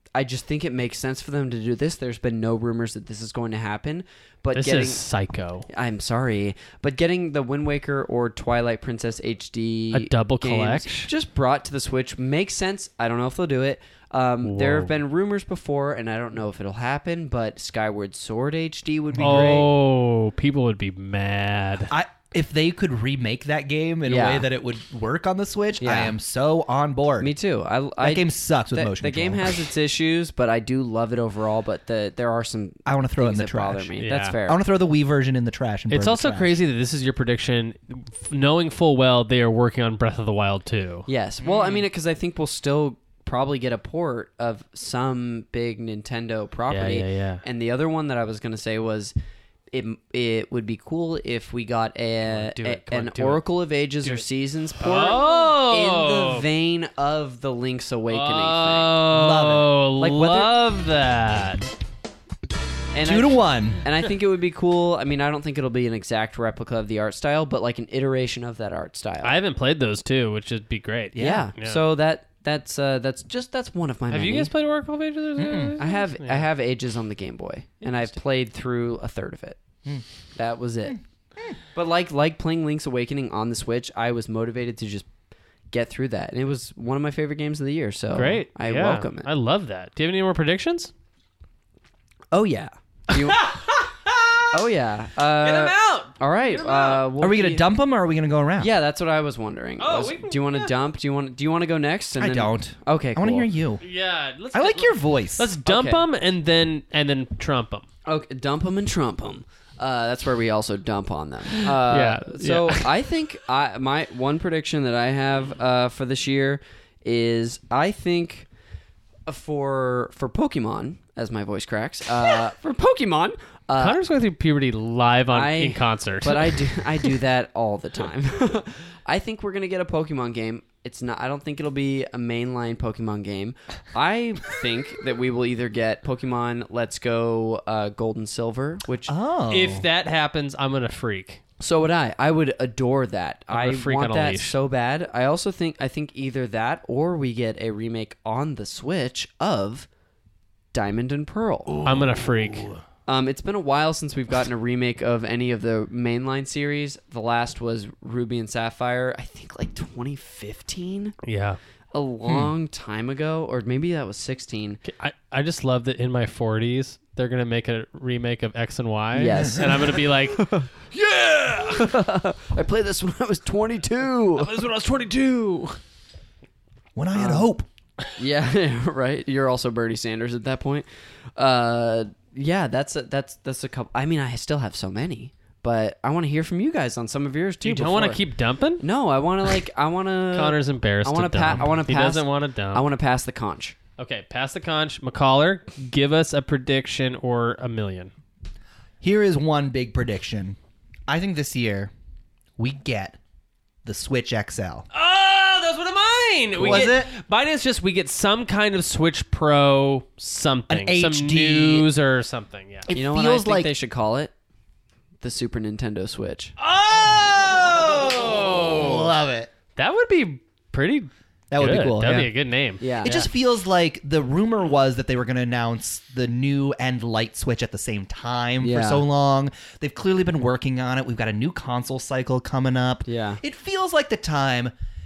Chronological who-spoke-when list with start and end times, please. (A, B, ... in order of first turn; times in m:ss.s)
0:00.2-0:05.0 A
0:04.6-0:05.7 B
0:05.7-0:19.7 A
0:09.9-0:11.1 B
0:14.4-0:14.9 B
0:19.2-0:21.9 B
0:21.9-0:27.3 C
0:24.1-0:24.5 A
0:25.8-0:26.2 A
0:27.2-0:34.6 A
0:28.0-0:29.7 C
0:32.9-0:36.6 C
0:34.0-0:34.4 B
0:35.9-0:41.1 B
0:41.1-0:49.2 A
0:41.4-0:41.8 C
0:46.7-0:47.4 B
0:49.7-0:59.0 A
0:52.3-0:53.4 B
0:54.8-0:56.5 B
0:58.1-1:01.6 B
0:59.1-0:59.7 C
1:00.0-1:00.5 A
1:02.9-1:09.4 A
1:03.0-1:03.8 C
1:09.2-1:11.8 B
1:11.2-1:11.5 C
1:11.2-1:14.5 A
1:14.1-1:16.5 B
1:15.4-1:15.8 C
1:15.8-1:19.6 A
1:17.8-1:18.2 B
1:20.4-1:21.0 A
1:21.8-1:25.1 A
1:25.7-1:29.3 A
1:28.1-1:30.9 B
1:32.3-1:33.4 A
1:33.1-1:34.5 B
1:34.5-1:37.6 A
1:35.4-1:37.1 B
1:37.2-1:38.7 C
1:38.6-1:43.5 A
1:39.8-1:40.7 B
1:42.2-1:43.8 C
1:43.8-1:47.9 B
1:44.5-1:45.5 C
1:45.6-1:46.0 A
1:48.1-1:58.5 A
1:51.5-1:52.9 B
1:59.3-2:04.0 A
2:03.8-2:07.1 B
2:05.3-2:19.2 A
2:19.1-2:19.8 C
2:19.5-2:21.4 B
2:21.6-2:29.9 A
2:23.5-2:24.6 B
2:30.7-2:31.8 A
2:31.8-2:32.8 B
2:33.1-2:41.2 A
2:41.2-2:41.6 B
2:41.9-2:44.8 A
2:42.3-2:42.5 C
2:44.9-2:52.0 B
2:49.1-2:50.7 A
2:49.3-2:49.9 C
2:51.7-2:54.5 A
2:54.4-2:55.8 B
2:57.0-2:57.7 C
2:57.2-2:57.5 A
2:58.2-3:08.2 A
3:07.6-3:08.8 B
3:08.8-3:13.8 A
3:10.3-3:12.9 B
3:14.0-3:18.1 B
3:19.0-3:21.9 C
3:22.6-3:23.2 C
3:23.8-3:24.9 C
3:24.9-3:32.9 B
3:26.6-3:26.9 A
3:26.6-3:27.1 C
3:30.7-3:31.9 C
3:32.9-3:33.7 C
3:32.9-3:34.3 A
3:35.2-3:36.6 A
3:36.6-3:39.1 B
3:37.1-3:39.5 C
3:39.8-3:43.3 B
3:41.5-3:42.3 C
3:42.8-3:43.3 A
3:43.0-3:54.7 C
3:48.6-3:49.0 A
3:53.1-3:53.4 A